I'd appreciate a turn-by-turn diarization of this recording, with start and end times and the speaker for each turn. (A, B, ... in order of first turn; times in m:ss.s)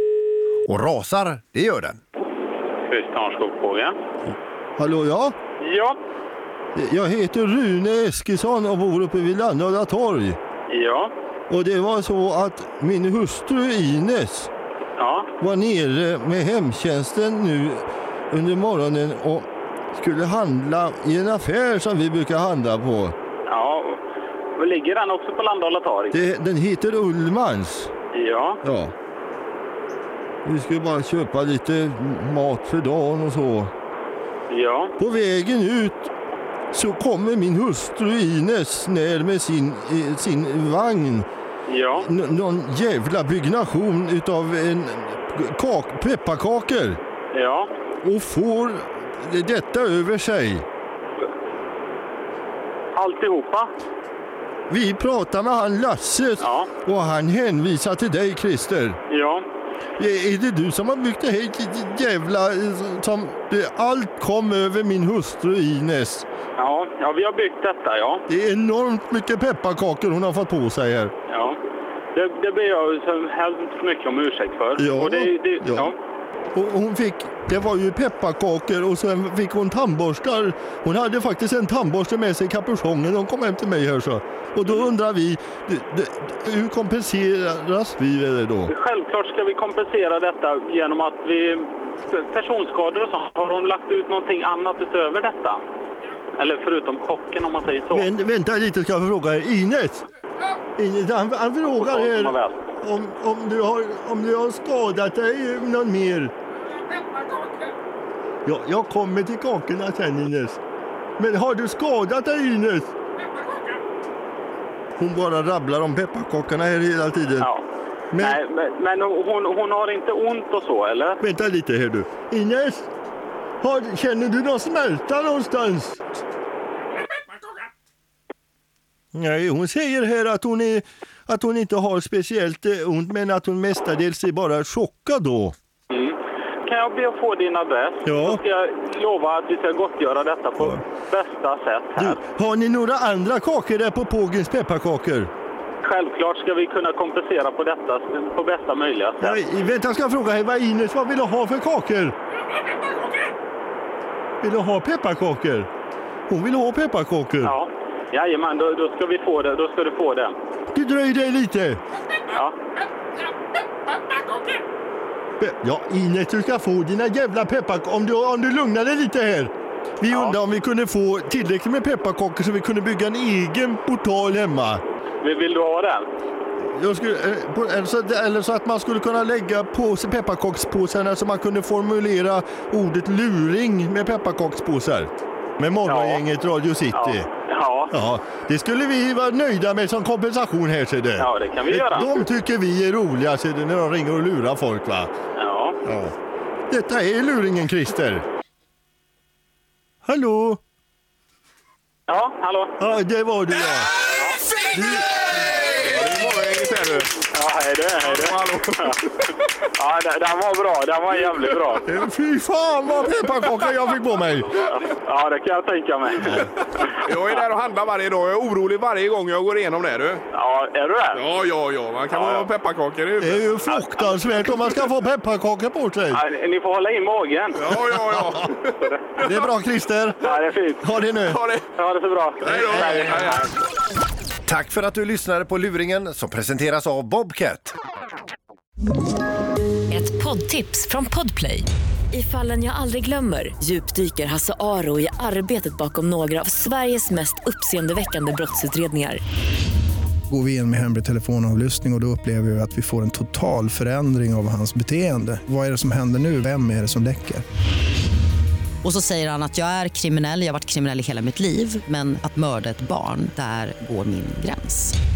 0:00.7-0:02.0 A
0:02.8-0:03.9 B
0:04.8-0:05.3 C
0:05.6-0:06.0 B
0:06.7-0:10.4 C
0:10.7-0:11.1 B
0:11.5-0:14.5 C
0:15.0-0:15.3 B
0:15.4-0:23.1 C
0:23.5-0:24.0 B
0:24.6-0:26.2 B
0:26.1-0:27.9 C
0:28.1-0:28.6 B
0:28.6-0:28.9 C
0:30.4-0:33.7 C
0:34.5-0:34.9 B
0:35.0-0:36.1 C
0:36.7-0:41.3 C
0:41.6-0:42.1 B
0:42.0-0:47.0 C
0:47.3-0:47.7 B
0:48.0-0:50.6 C
0:52.9-0:53.7 B
0:54.7-0:59.0 C
0:56.4-0:56.7 B
0:59.1-0:59.4 B
1:00.0-1:06.2 C
1:06.6-1:08.2 B
1:08.3-1:11.1 C
1:11.3-1:11.6 B
1:12.1-1:16.0 B
1:14.8-1:15.9 C
1:16.5-1:28.7 C
1:28.7-1:35.6 B
1:36.4-1:38.1 B
1:37.9-1:40.0 C
1:40.8-1:46.3 C
1:41.7-1:42.5 B
1:48.4-1:50.6 C
1:51.2-1:52.9 C
1:55.0-1:57.5 C
1:57.4-1:57.6 B
1:58.1-1:58.4 C
1:58.2-2:01.2 B
2:01.2-2:02.9 C
2:03.6-2:06.0 C
2:09.1-2:15.5 C
2:15.9-2:22.2 B
2:18.0-2:18.4 C
2:22.0-2:25.3 C
2:25.8-2:29.4 B
2:29.2-2:32.1 C
2:34.4-2:35.7 C
2:36.3-2:37.6 C
2:37.4-2:40.3 B
2:40.7-2:41.8 C
2:45.4-2:54.8 C
2:50.1-2:50.4 B
2:55.2-2:56.1 B
2:56.7-3:07.3 C
3:05.8-3:06.2 B
3:06.9-3:07.9 B
3:07.9-3:15.1 C
3:11.2-3:12.2 B
3:15.4-3:15.8 B
3:15.8-3:16.1 C
3:16.7-3:18.2 C
3:20.0-3:20.6 C
3:22.1-3:22.7 B
3:22.8-3:23.9 C
3:24.1-3:24.4 B
3:24.7-3:25.2 C
3:25.8-3:27.1 D
3:27.3-3:29.0 B
3:28.0-3:29.0 D
3:29.8-3:31.8 B
3:31.8-3:34.5 C
3:34.6-3:36.5 B
3:37.0-3:40.2 D
3:40.3-3:41.2 B
3:41.1-3:43.4 D
3:42.1-3:42.4 B
3:43.2-3:46.2 C
3:43.6-3:44.3 B
3:46.1-3:47.7 B
3:47.5-3:49.4 D
3:49.2-3:50.2 C
3:50.2-3:50.8 B
3:50.8-3:51.4 C
3:51.3-3:51.6 D
3:51.7-3:53.5 B
3:52.4-3:53.5 D
3:52.5-3:53.3 C
3:54.4-3:57.7 A
3:59.9-4:09.2 E
4:10.3-4:17.4 F
4:18.8-4:24.9 G